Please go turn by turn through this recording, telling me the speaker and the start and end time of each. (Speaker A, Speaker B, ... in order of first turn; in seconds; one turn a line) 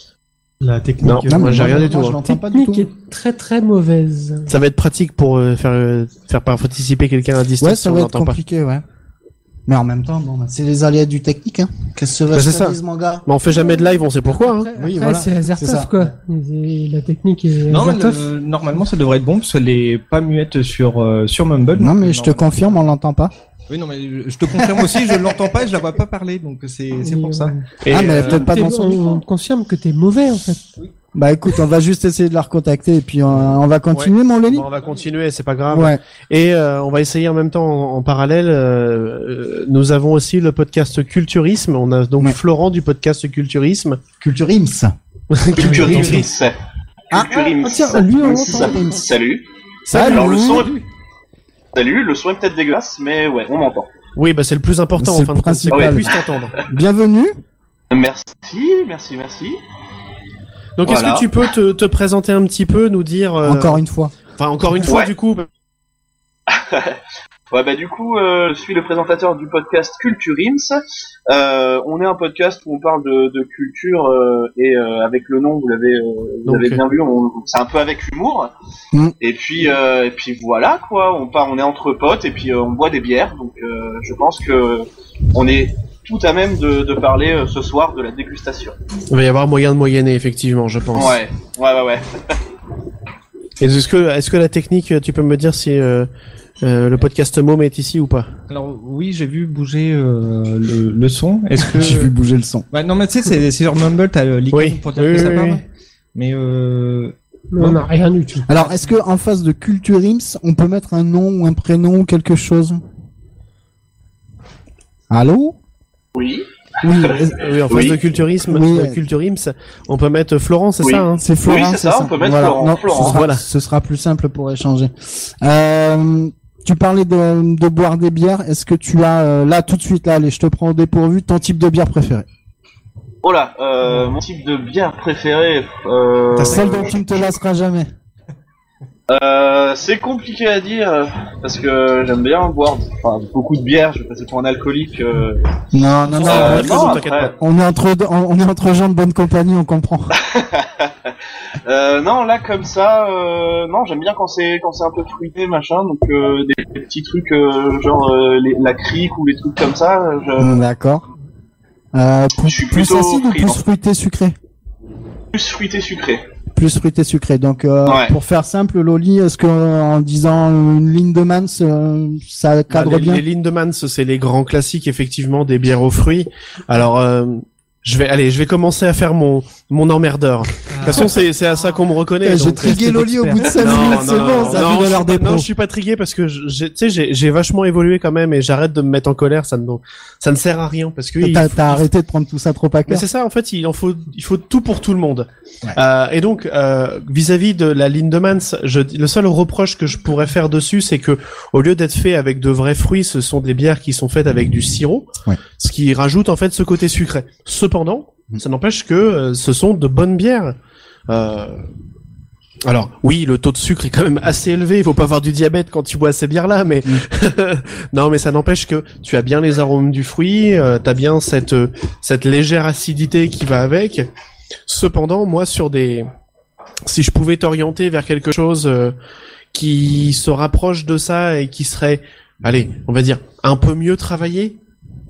Speaker A: 0.6-1.8
Speaker B: 1.0-2.2
Speaker C: 1.2-2.9
Speaker D: 2.2-4.5
Speaker B: 4.5-8.4
Speaker C: 7.6-8.8
Speaker C: 9.7-13.2
Speaker B: 12.3-14.7
Speaker D: 13.5-18.3
Speaker C: 14.7-15.9
Speaker A: 17.7-22.8
Speaker C: 21.8-23.3
Speaker A: 23.7-27.6
Speaker C: 24.8-25.1
Speaker D: 27.0-27.6
Speaker B: 27.8-28.5
Speaker C: 27.9-29.2
Speaker D: 28.2-30.7
Speaker C: 31.1-34.7
Speaker B: 33.9-44.0
Speaker C: 35.7-36.0
Speaker C: 44.2-44.9
Speaker B: 45.3-46.3
Speaker E: 45.5-46.6
Speaker C: 45.5-46.2
Speaker C: 47.1-49.1
Speaker E: 47.1-50.8
Speaker C: 49.9-50.8
Speaker E: 51.7-53.9
Speaker B: 54.1-56.5
Speaker C: 55.0-56.1
Speaker E: 55.7-56.2
Speaker C: 56.6-57.3
Speaker E: 57.9-59.6
Speaker B: 60.8-63.8
Speaker E: 60.8-61.3
Speaker C: 63.4-64.1
Speaker B: 64.4-65.5
Speaker E: 64.8-65.1
Speaker E: 66.5-67.0
Speaker E: 67.5-78.5
Speaker B: 76.4-76.8
Speaker E: 79.2-88.8
Speaker B: 89.1-91.2
Speaker E: 90.9-92.3
Speaker B: 93.6-96.1
Speaker B: 96.6-98.3
Speaker A: 98.5-102.1
Speaker C: 101.6-102.7
Speaker A: 102.7-105.6
Speaker B: 104.5-105.6
Speaker A: 106.1-107.8
Speaker D: 107.5-108.5
Speaker C: 108.5-112.8
Speaker C: 115.1-115.5
Speaker E: 116.1-118.0
Speaker C: 116.8-117.3
Speaker B: 117.3-121.2
Speaker C: 118.5-119.0
Speaker E: 120.8-123.2
Speaker C: 121.2-132.2
Speaker B: 122.9-123.4
Speaker E: 133.2-137.2
Speaker C: 136.3-137.9
Speaker E: 139.1-145.4
Speaker C: 145.7-150.2
Speaker B: 146.2-147.3
Speaker E: 146.2-147.3
Speaker E: 150.2-151.1
Speaker E: 151.6-160.6
Speaker C: 160.4-161.1
Speaker C: 161.9-164.3
Speaker E: 162.4-163.6
Speaker E: 165.3-166.2
Speaker C: 166.5-173.2
Speaker E: 167.8-168.1
Speaker B: 172.7-182.9
Speaker A: 180.7-181.1
Speaker C: 182.2-185.5
Speaker A: 182.8-184.5
Speaker B: 183.6-191.8
Speaker C: 191.2-193.0
Speaker B: 192.9-205.1
Speaker B: 205.6-210.5
Speaker B: 211.1-211.6
Speaker B: 212.7-224.1
Speaker B: 224.7-226.1
Speaker B: 226.8-228.9
Speaker B: 229.5-234.6